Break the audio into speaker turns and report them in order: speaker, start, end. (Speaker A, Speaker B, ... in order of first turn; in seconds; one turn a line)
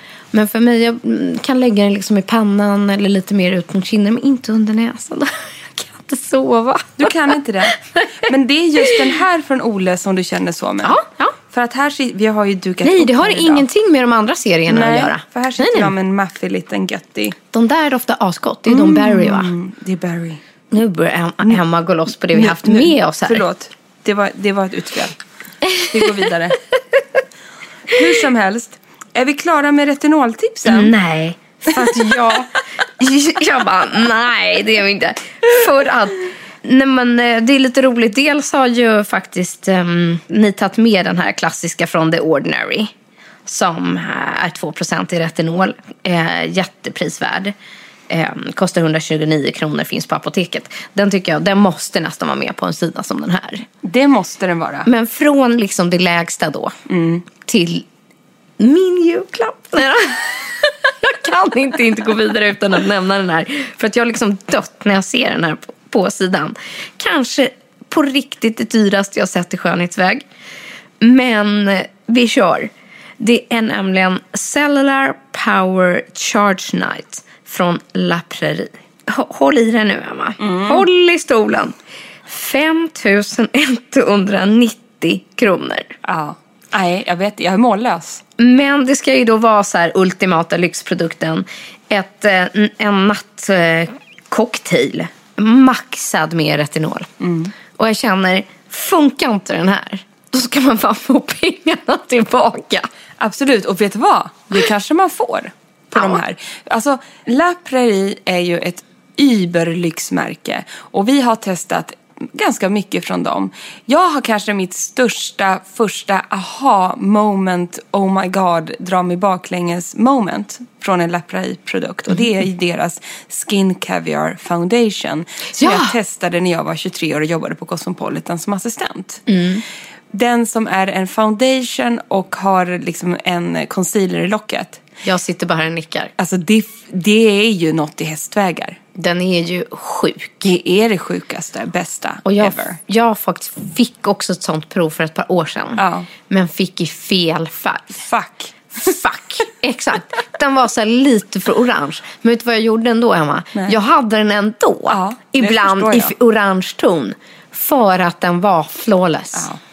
Speaker A: 0.3-9.1
Speaker B: 7.0-11.0
Speaker A: 10.8-11.3
Speaker B: 11.5-13.6
Speaker A: 12.8-15.9
Speaker B: 14.7-17.4
Speaker A: 17.5-19.5
Speaker B: 18.7-20.4
Speaker A: 20.7-23.4
Speaker B: 22.3-25.1
Speaker A: 25.6-26.1
Speaker B: 25.8-26.6
Speaker B: 27.9-30.9
Speaker A: 30.6-42.9
Speaker A: 43.4-47.5
Speaker A: 48.1-53.6
Speaker B: 53.8-54.9
Speaker A: 54.9-56.8
Speaker B: 56.9-57.2
Speaker A: 57.4-57.9
Speaker A: 58.6-70.2
Speaker A: 71.0-81.7
Speaker B: 80.4-80.8
Speaker A: 82.2-85.9
Speaker B: 86.0-88.2
Speaker A: 88.4-97.1
Speaker B: 97.2-97.5
Speaker A: 97.8-102.9
Speaker B: 103.2-129.2
Speaker A: 105.9-106.2
Speaker A: 125.6-125.9
Speaker A: 129.3-129.6
Speaker B: 130.1-134.8
Speaker A: 135.0-136.1
Speaker B: 136.2-138.8
Speaker A: 138.9-140.4
Speaker B: 140.4-142.8
Speaker A: 142.2-148.0
Speaker B: 145.8-146.1
Speaker B: 148.0-148.6
Speaker A: 148.8-159.5
Speaker B: 154.9-156.1